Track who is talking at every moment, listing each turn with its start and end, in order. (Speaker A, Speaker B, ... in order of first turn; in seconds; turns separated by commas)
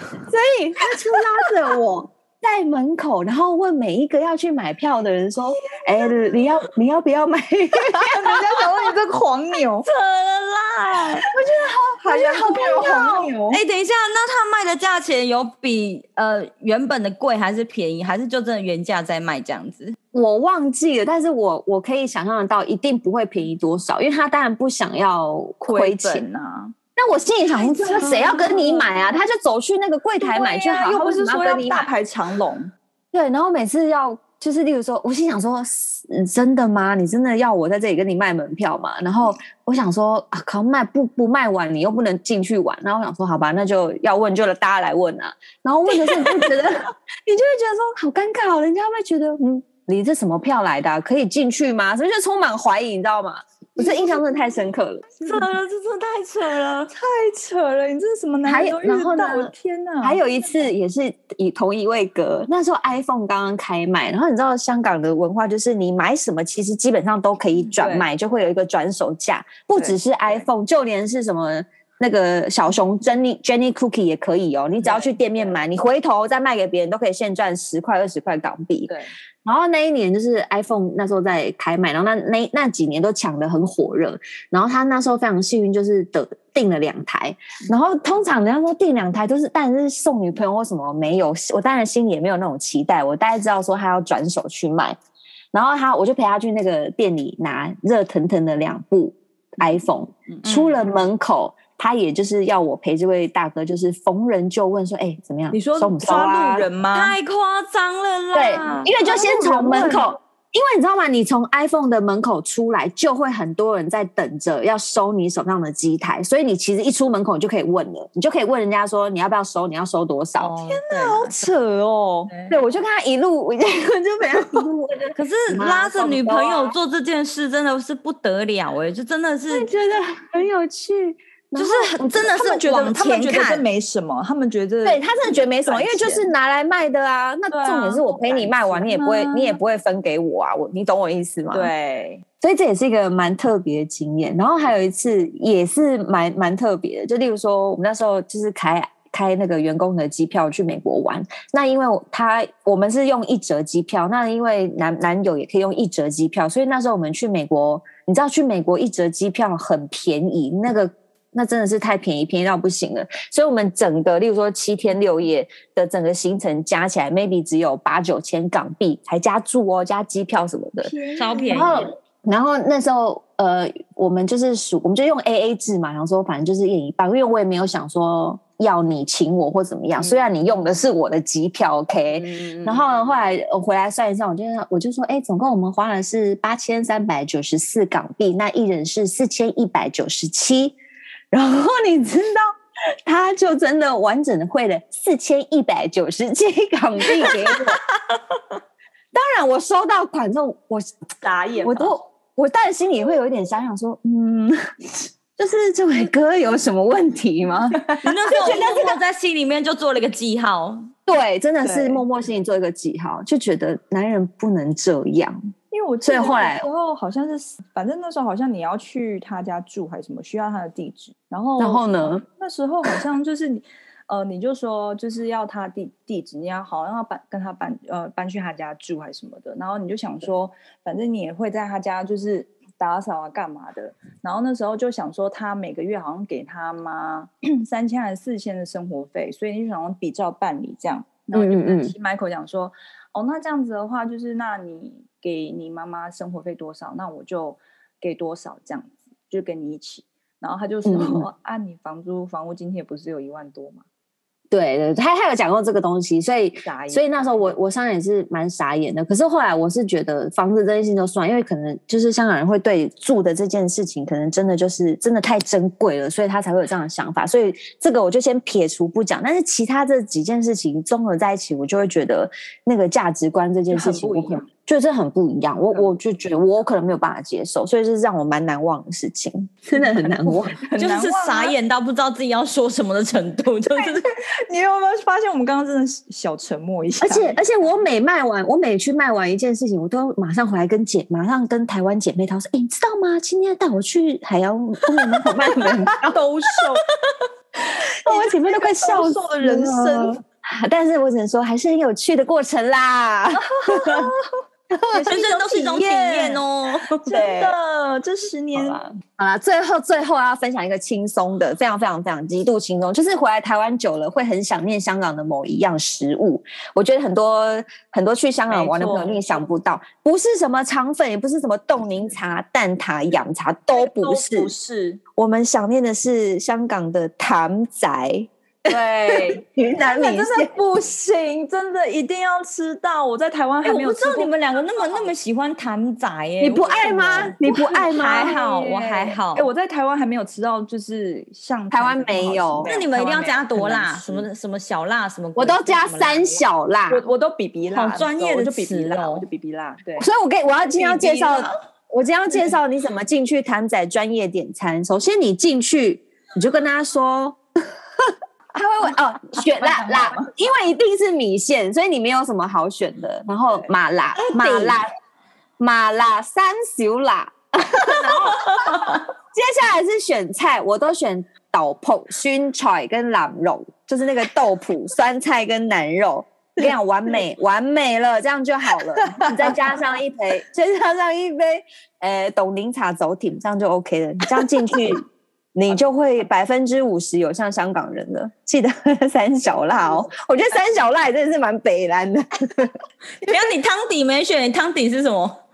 Speaker A: 0.2-8.4, Speaker B: 7.9-9.9, Speaker C: 9.8-11.2, Speaker A: 11.3-13.4, Speaker B: 12.0-13.6, Speaker C: 13.5-19.9, Speaker A: 20.1-26.2, Speaker B: 25.6-26.7, Speaker A: 26.9-31.9, Speaker B: 27.6-28.9, Speaker C: 28.0-28.4, Speaker B: 30.2-32.7, Speaker A: 33.1-55.4, Speaker C: 55.2-56.9, Speaker B: 56.9-60.2, Speaker A: 58.4-78.9, Speaker B: 67.7-68.1, Speaker B: 69.7-70.4, Speaker B: 74.8-75.6, Speaker B: 78.9-79.1, Speaker A: 79.4-95.0, Speaker A: 95.5-106.7, Speaker B: 100.3-100.8, Speaker B: 105.5-107.2, Speaker C: 106.9-109.1, Speaker A: 108.3-120.5, Speaker B: 109.0-110.0, Speaker C: 109.7-110.0, Speaker C: 120.4-121.4, Speaker B: 120.6-122.3, Speaker C: 122.3-122.6, Speaker A: 122.5-126.7, Speaker C: 125.2-129.7, Speaker A: 129.5-132.6, Speaker C: 131.6-133.6, Speaker B: 132.3-136.3, Speaker A: 134.8-141.7, Speaker B: 137.5-139.6, Speaker B: 141.5-142.2, Speaker A: 142.4-170.9, Speaker B: 170.8-171.9, Speaker C: 171.2-171.9, Speaker A: 171.5-190.8, Speaker A: 191.3-192.5, Speaker A: 193.1-197.8, Speaker A: 199.1-200.9, Speaker B: 201.2-201.9, Speaker A: 201.6-204.6, Speaker A: 205.4-209.0, Speaker B: 207.9-208.3, Speaker C: 208.0-210.9, Speaker A: 211.1-215.4, Speaker B: 211.6-212.0, Speaker B: 215.7-253.8, Speaker A: 216.0-216.7, Speaker A: 221.6-222.2, Speaker A: 241.3-241.9, Speaker A: 250.8-251.3, Speaker A: 254.5-280.6, Speaker B: 256.6-257.5, Speaker B: 273.7-274.5, Speaker B: 275.7-276.0, Speaker B: 279.7-281.5, Speaker C: 280.8-284.1, Speaker B: 283.7-283.9, Speaker B: 284.5-287.4, Speaker A: 287.0-296.1, Speaker B: 295.1-296.8, Speaker B: 298.0-300.2, Speaker A: 298.1-304.1, Speaker B: 303.4-304.2, Speaker A: 304.7-305.8, Speaker B: 304.9-306.4, Speaker C: 305.0-307.1, Speaker B: 307.0-308.8, Speaker A: 307.1-307.5, Speaker A: 308.5-324.5, Speaker B: 318.5-319.4, Speaker B: 323.7-325.0, Speaker A: 325.2-330.5, Speaker B: 328.7-335.1, Speaker C: 333.6-339.5, Speaker A: 336.4-338.4, Speaker B: 336.8-344.2, Speaker A: 341.7-342.7, Speaker C: 342.6-346.4, Speaker A: 345.4-347.0, Speaker B: 346.9-350.1, Speaker C: 347.7-349.3, Speaker A: 350.0-357.4, Speaker C: 350.8-351.5, Speaker A: 358.1-364.9, Speaker B: 359.3-360.3, Speaker B: 363.5-364.8, Speaker A: 365.6-392.7, Speaker B: 379.1-379.6, Speaker C: 393.2-395.4